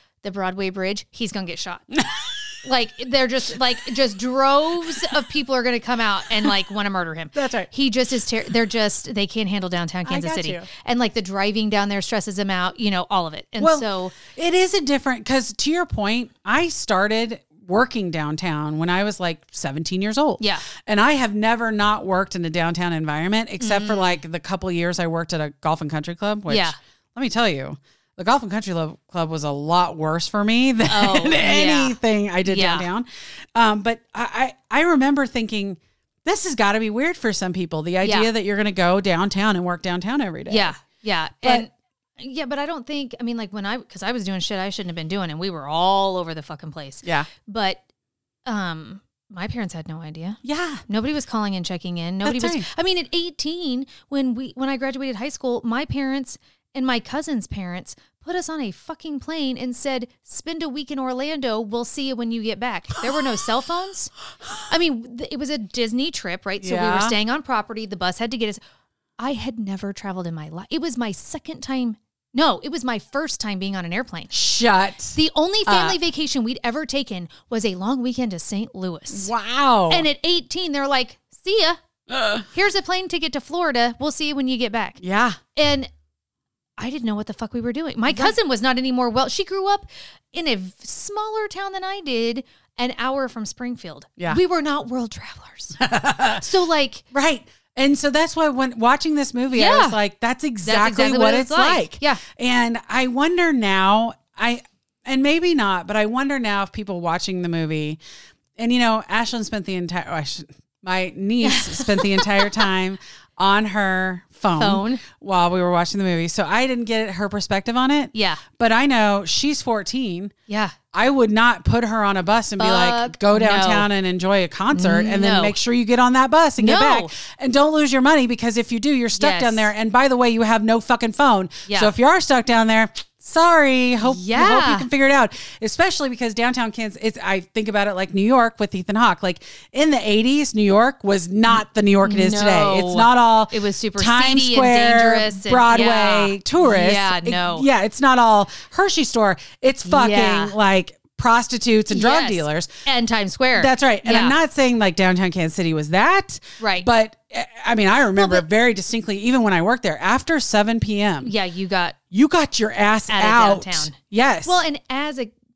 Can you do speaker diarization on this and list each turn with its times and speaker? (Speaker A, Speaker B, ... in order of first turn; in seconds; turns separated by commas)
Speaker A: 0.2-2.0, Speaker B: 1.9-2.3, Speaker A: 2.6-14.2, Speaker B: 7.3-7.7, Speaker B: 10.1-10.7, Speaker B: 13.6-40.7, Speaker A: 20.4-20.7, Speaker A: 23.6-24.2, Speaker A: 26.5-26.8, Speaker A: 30.9-32.9, Speaker A: 38.0-38.3, Speaker A: 40.5-47.8, Speaker B: 47.0-47.3, Speaker A: 48.5-64.1, Speaker B: 50.4-50.8, Speaker B: 52.2-52.7, Speaker A: 64.7-68.6, Speaker B: 66.6-67.2, Speaker A: 69.2-74.3, Speaker B: 74.3-76.0, Speaker A: 75.1-79.3, Speaker B: 79.1-80.1, Speaker A: 79.9-81.8, Speaker B: 82.1-82.5, Speaker A: 82.5-85.0, Speaker B: 85.0-85.4, Speaker A: 85.5-85.9, Speaker A: 86.8-95.8, Speaker B: 88.1-88.3, Speaker B: 95.8-96.5, Speaker A: 96.4-97.0, Speaker B: 97.1-108.0, Speaker A: 99.5-100.0, Speaker A: 100.6-102.2, Speaker B: 108.6-120.3, Speaker A: 111.4-112.7, Speaker A: 114.6-115.0, Speaker A: 118.1-118.4, Speaker A: 120.5-120.8, Speaker B: 120.9-152.7, Speaker A: 122.6-123.9, Speaker A: 124.7-125.6, Speaker A: 126.6-127.1, Speaker A: 129.2-129.7, Speaker A: 131.7-131.9, Speaker A: 134.0-134.9, Speaker A: 142.0-147.7, Speaker A: 149.8-150.6, Speaker A: 151.9-154.4, Speaker B: 153.6-161.3, Speaker A: 156.6-156.9, Speaker A: 158.2-158.4, Speaker A: 161.2-162.0, Speaker B: 162.1-164.6, Speaker A: 163.1-165.3